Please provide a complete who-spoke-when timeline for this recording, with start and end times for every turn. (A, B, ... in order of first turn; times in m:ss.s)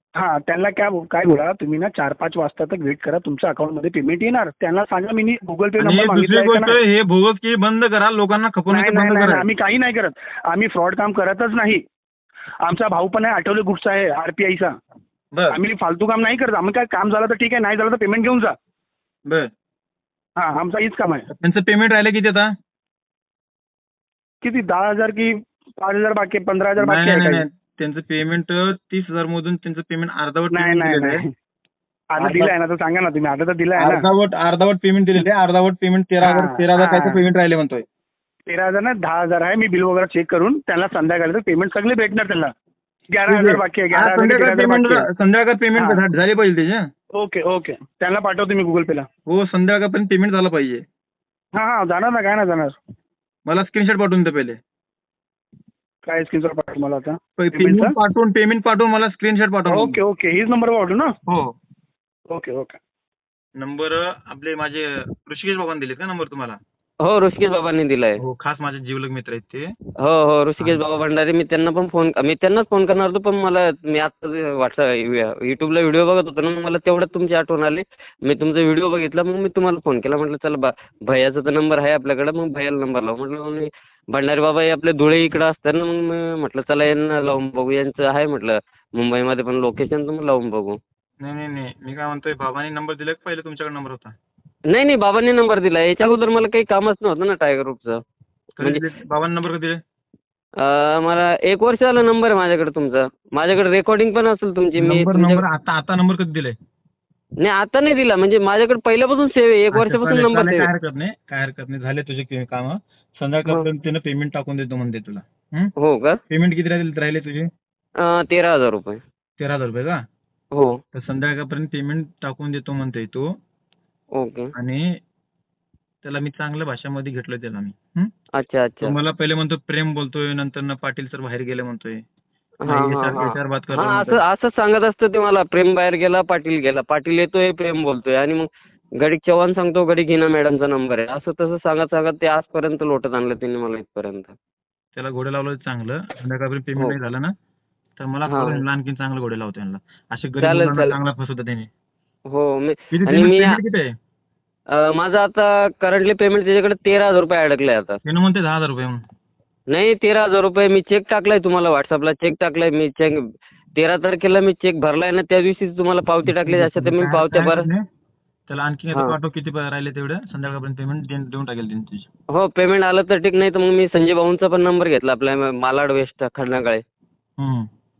0:00.2-0:06.8 A
0:05.8-0:09.4 B
0:08.7-0:11.8 A
0:12.6-0:14.7 A
0:15.5-0:18.5 A
0:20.4-0:21.3 A
0:21.4-0:22.5 B
0:24.4-0:27.4 A
0:26.8-0:31.2 B
0:30.5-0:31.3 A
0:32.1-0:34.0 A
0:32.2-0:32.5 B
0:33.8-0:37.8 B
0:36.2-0:37.2 A
0:38.5-0:42.5 A
0:43.1-0:45.0 A
0:43.3-0:46.8 B
0:47.2-0:49.0 A
0:49.3-0:50.8 B
0:51.6-0:52.8 A
0:53.4-0:54.6 B
0:56.0-0:58.0 A
0:57.4-1:00.0 B
0:59.7-1:01.1 A
1:01.3-1:01.5 B
1:02.3-1:02.8 A
1:03.6-1:06.6 B
1:07.0-1:08.2 C
1:08.2-1:09.7 B
1:10.0-1:30.8 C
1:31.2-1:34.1 B
1:34.7-1:38.0 C
1:38.6-1:38.9 C
1:38.6-1:39.8 B
1:40.6-1:45.4 C
1:44.8-1:46.6 B
1:47.4-1:50.7 C
1:49.7-1:55.7 B
1:55.8-1:56.2 C
1:56.3-1:57.5 B
1:58.0-1:59.0 C
1:59.4-2:00.0 B
2:00.5-2:00.8 C
2:00.9-2:03.3 B
2:04.2-2:04.5 C
2:04.6-2:04.8 B
2:06.0-2:08.1 B
2:08.4-2:08.9 C
2:08.8-2:12.0 B
2:12.6-2:14.2 B
2:12.6-2:18.5 C
2:19.0-2:24.3 C
2:24.9-2:27.3 B
2:28.0-2:31.7 B
2:28.3-2:28.6 C
2:30.4-2:31.0 C
2:32.3-2:33.6 C
2:32.9-2:33.9 B
2:34.7-2:38.0 C
2:38.0-2:39.0 B
2:39.7-2:47.7 C
2:46.2-2:47.8 B
2:48.5-2:52.1 B
2:52.3-2:56.8 C
2:57.4-2:57.7 B